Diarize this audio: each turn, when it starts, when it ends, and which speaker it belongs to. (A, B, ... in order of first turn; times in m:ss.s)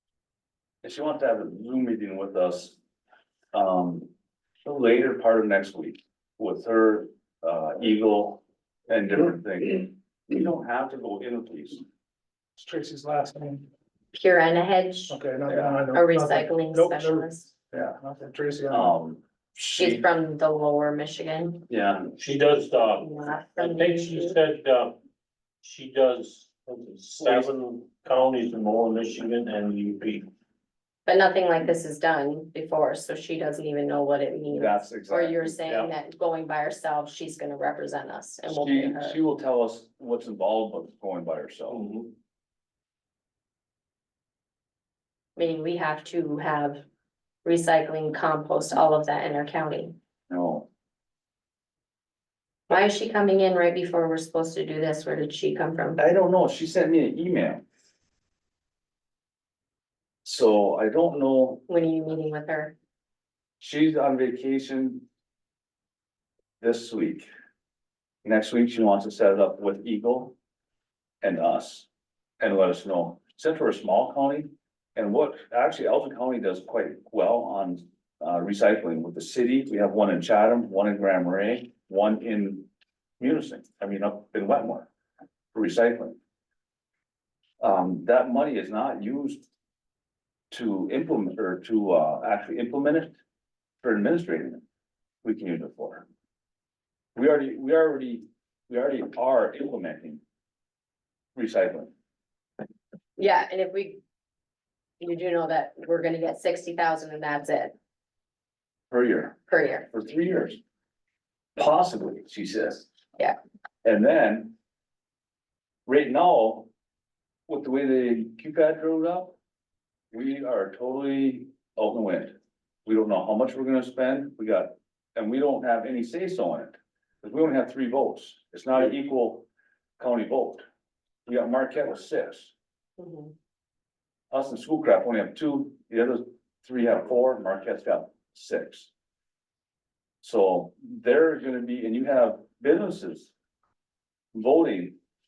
0:00.8-0:02.8 A
0:03.5-0:04.1 A
0:04.6-0:11.8 A
0:12.6-0:13.7 B
0:14.1-0:15.2 C
0:15.1-0:17.3 B
0:15.4-0:15.8 A
0:15.9-0:17.5 C
0:17.7-0:18.0 A
0:18.0-0:18.9 B
0:18.7-0:20.0 A
0:19.8-0:21.6 C
0:21.7-0:22.2 A
0:22.2-0:25.0 D
0:23.0-0:24.4 C
0:25.6-0:30.3 D
0:27.2-0:27.5 A
0:31.0-0:39.2 C
0:34.5-0:35.4 A
0:35.6-0:35.9 D
0:38.5-0:41.9 A
0:41.7-0:42.1 D
0:45.4-0:46.8 C
0:47.4-0:49.9 C
0:50.3-0:50.7 A
0:52.7-0:56.0 C
0:56.0-0:57.6 A
1:00.2-1:01.6 A
1:01.7-1:02.7 C
1:03.6-1:05.0 A
1:06.6-1:07.3 A
1:08.2-1:10.3 A
1:11.2-1:11.9 A
1:12.4-1:22.7 A
1:23.2-1:24.9 A
1:25.5-1:26.2 A
1:27.6-1:29.4 A
1:30.5-1:33.2 A
1:33.8-1:34.6 A
1:35.2-1:36.0 A
1:37.1-1:40.2 A
1:41.3-1:41.9 A
1:43.2-1:44.0 C
1:45.0-1:47.8 C
1:48.9-1:50.6 A
1:49.5-1:49.9 C
1:51.6-1:52.9 A
1:53.8-1:54.5 A
1:55.8-1:56.7 A
1:57.5-1:59.4 A
2:00.1-2:09.5 A
2:10.0-2:10.6 A
2:11.2-2:12.5 A
2:13.0-2:13.3 C
2:14.3-2:18.9 A
2:20.2-2:23.3 A
2:24.3-2:25.0 A